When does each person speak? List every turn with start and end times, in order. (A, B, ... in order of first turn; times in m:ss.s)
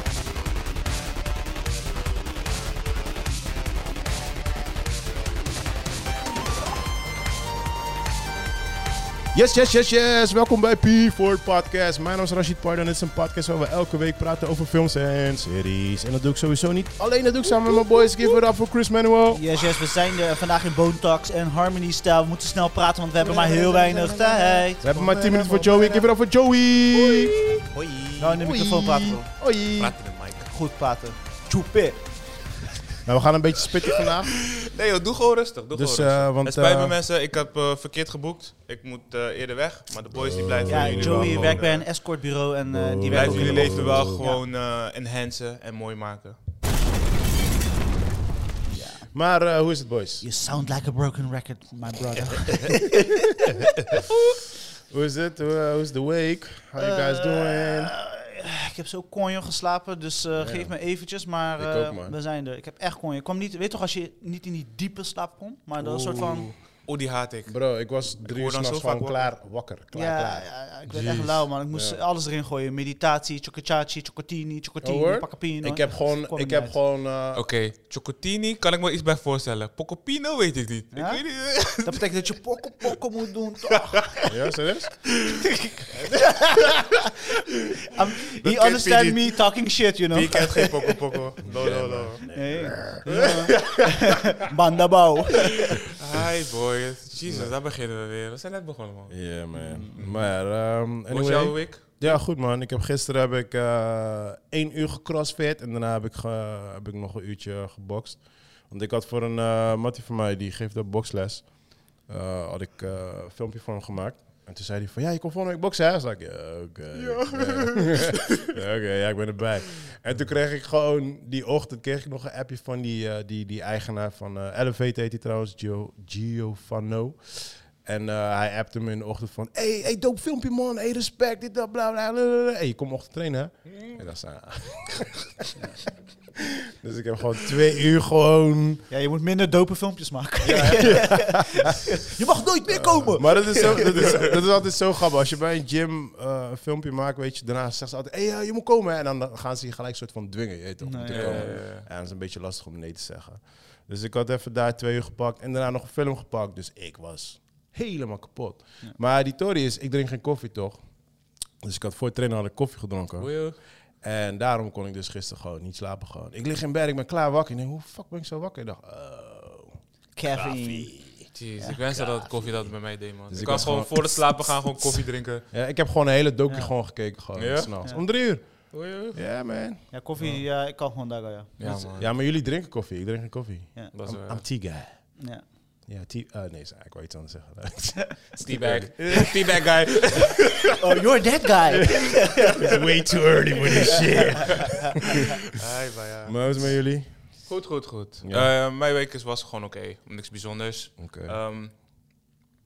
0:09.3-0:19.4 A
0:19.3-0:26.1 B
0:23.2-0:27.4 A
0:27.7-0:28.5 C
0:28.2-0:29.3 B
0:28.4-0:30.0 A
0:29.8-0:30.5 C
0:30.5-0:32.0 B
0:33.0-0:34.5 A
0:33.9-0:41.8 C
0:35.7-0:37.0 A
0:40.1-0:41.6 A
0:40.7-0:44.4 B
0:42.7-0:44.2 A
0:43.1-0:46.4 C
0:48.7-0:49.1 B
0:49.0-0:50.2 A
0:50.2-0:53.7 B
0:54.9-0:57.9 A
0:56.8-1:06.5 B
1:00.3-1:00.7 A
1:01.6-1:02.1 A
1:05.8-1:06.5 A
1:06.8-1:09.3 C
1:07.5-1:10.5 A
1:09.9-1:16.8 B
1:10.9-1:11.4 C
1:11.7-1:12.0 A
1:14.8-1:17.4 A
1:17.3-1:22.0 C
1:20.9-1:24.2 B
1:24.3-1:25.0 A
1:25.2-1:31.0 B
1:28.4-1:29.5 C
1:30.1-1:32.2 C
1:31.4-1:33.0 A
1:32.2-1:35.8 B
1:33.1-1:34.1 C
1:35.9-1:39.1 C
1:37.2-1:37.5 A
1:39.1-1:51.5 A
1:39.5-1:39.9 B
1:40.0-1:40.3 C
1:41.1-1:42.2 C
1:52.1-2:15.5 A
1:56.9-1:58.6 C
2:13.7-2:14.0 C
2:16.4-2:18.8 A
2:18.9-2:24.2 B
2:20.4-2:21.8 A
2:20.5-2:21.0 C
2:22.7-2:40.8 A
2:23.8-2:24.3 C
2:30.8-2:31.6 B
2:31.0-2:31.8 C
2:41.6-2:43.3 A
2:43.2-2:43.6 C
2:44.0-2:49.8 A
2:50.2-2:50.9 B
2:50.3-2:51.3 A
2:51.3-2:55.4 C
2:53.3-2:59.8 A
2:57.4-2:57.8 C
2:58.7-2:59.2 C
2:59.9-3:01.9 B
3:01.6-3:02.1 C
3:01.7-3:05.1 A
3:03.9-3:04.4 C
3:05.2-3:05.4 B
3:05.9-3:10.2 A
3:08.4-3:10.8 C
3:10.8-3:12.8 B
3:11.7-3:15.4 A
3:14.1-3:15.4 B
3:15.4-3:16.7 C
3:16.2-3:17.1 A
3:17.5-3:21.7 C
3:18.2-3:18.5 A
3:21.0-3:21.4 A